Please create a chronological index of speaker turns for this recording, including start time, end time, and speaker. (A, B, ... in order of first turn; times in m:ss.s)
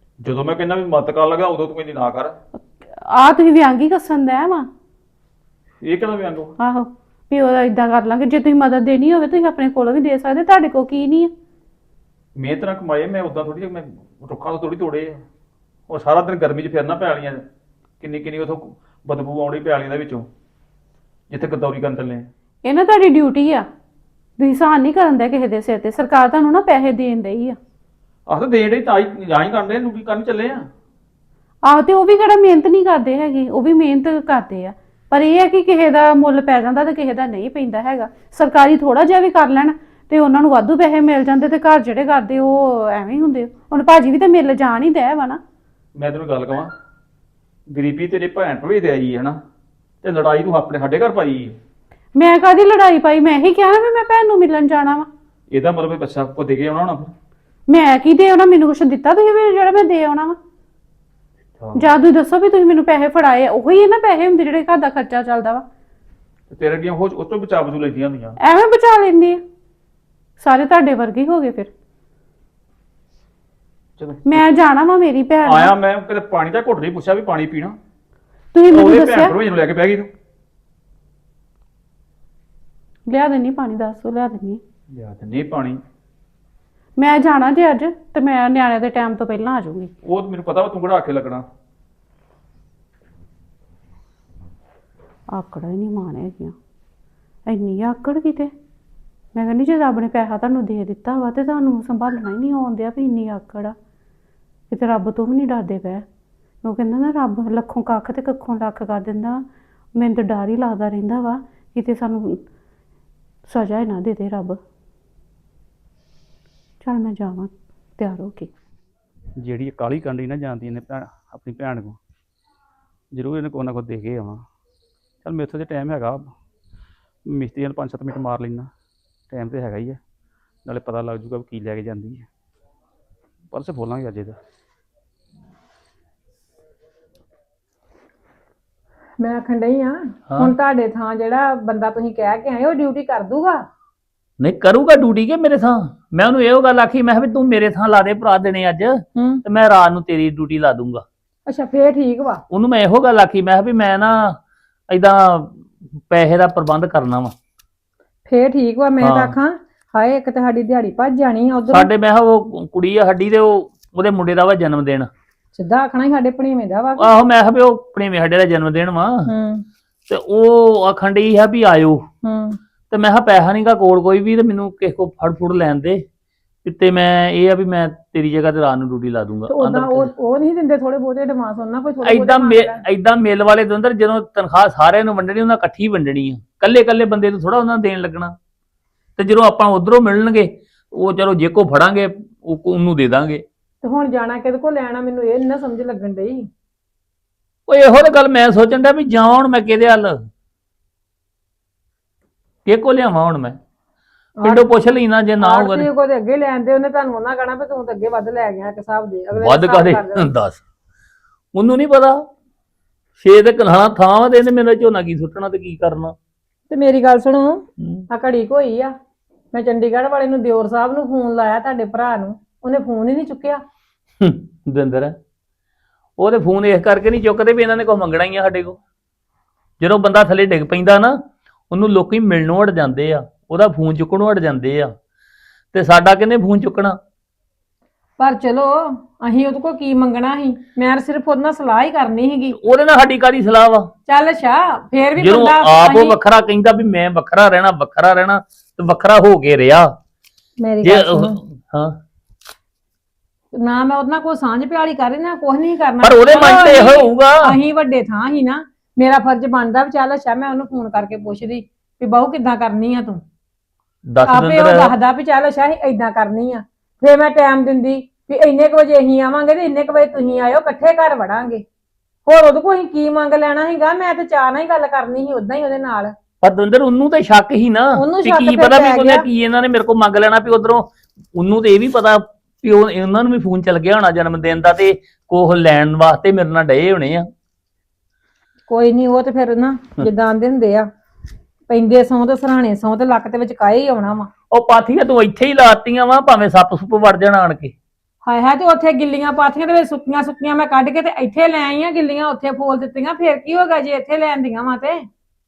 0:00.2-0:02.4 A
0:02.6-0:04.7 B
0:05.8-0:06.5 A
0:06.6-0:11.3 B
0:12.4-0:15.2 A
0:15.9-0:17.4 A
0:18.0-0:20.3 A
0:21.3-0:22.3 A
0:22.6-0:23.7 B
0:24.4-0:27.6 B
0:28.3-0:30.7 A
0:31.6-0:45.4 B
0:46.0-0:46.7 A
0:47.7-0:49.4 A
0:50.0-0:51.6 A
0:52.2-0:55.1 B
0:55.5-0:57.1 A
0:57.7-1:00.4 B
1:01.6-1:01.9 A
1:01.8-1:05.6 B
1:06.5-1:08.4 A
1:08.4-1:09.4 B
1:10.4-1:11.7 B
1:14.0-1:14.4 A
1:14.2-1:15.7 B
1:15.4-1:17.8 A
1:18.5-1:19.4 B
1:18.7-1:20.1 A
1:23.1-1:24.6 B
1:24.9-1:25.8 A
1:27.0-1:29.9 B
1:30.0-1:31.5 A
1:35.3-1:36.6 B
1:37.5-1:38.5 B
1:39.3-1:43.8 B
1:44.7-1:46.0 B
1:46.6-1:49.4 B
1:50.0-1:52.4 B
1:53.5-1:54.6 B
1:56.8-1:58.5 B
1:59.4-2:02.0 A
2:03.1-2:04.4 A
2:05.2-2:06.3 A
2:07.3-2:08.7 A
2:09.3-2:10.0 A
2:10.6-2:12.3 A
2:13.5-2:14.4 A
2:19.2-2:23.6 C
2:20.3-2:20.6 D
2:24.4-2:31.0 D
2:29.2-2:29.4 C
2:31.5-2:32.4 C
2:32.5-2:34.4 D
2:34.9-2:37.3 D
2:38.3-2:41.9 C
2:39.0-2:39.4 D
2:41.7-2:45.1 D
2:45.6-2:47.1 C
2:47.0-2:49.3 D
2:49.3-2:49.6 C
2:50.1-2:52.0 D
2:52.2-2:52.6 C
2:52.9-2:56.0 D
2:56.6-3:00.1 D
2:59.5-3:02.8 C
3:02.0-3:08.4 D
3:09.2-3:13.4 D
3:13.8-3:16.5 C
3:17.7-3:20.2 D
3:22.7-3:23.6 D
3:24.4-3:24.7 C
3:24.4-3:25.9 D
3:25.4-3:30.3 C
3:29.4-3:30.6 D
3:31.5-3:32.2 D
3:33.2-3:36.1 D
3:36.7-3:38.9 C
3:37.8-3:38.1 D
3:39.5-3:43.6 C
3:44.2-3:45.2 D
3:46.2-3:48.8 D
3:49.8-3:51.2 D
3:51.7-3:54.9 D
3:55.7-3:57.0 D
3:58.2-4:02.6 C
4:02.5-4:03.9 D
4:04.1-4:06.2 C
4:05.2-4:09.9 D
4:10.6-4:11.4 C
4:10.8-4:11.9 D
4:13.6-4:23.2 C
4:16.0-4:17.6 D
4:24.1-4:24.9 D
4:24.2-4:31.6 C
4:32.3-4:36.1 C
4:36.4-4:47.3 D
4:38.0-4:39.3 C
4:48.7-4:50.9 C
4:51.7-4:54.3 C
4:54.5-4:57.7 D
4:58.2-5:05.0 C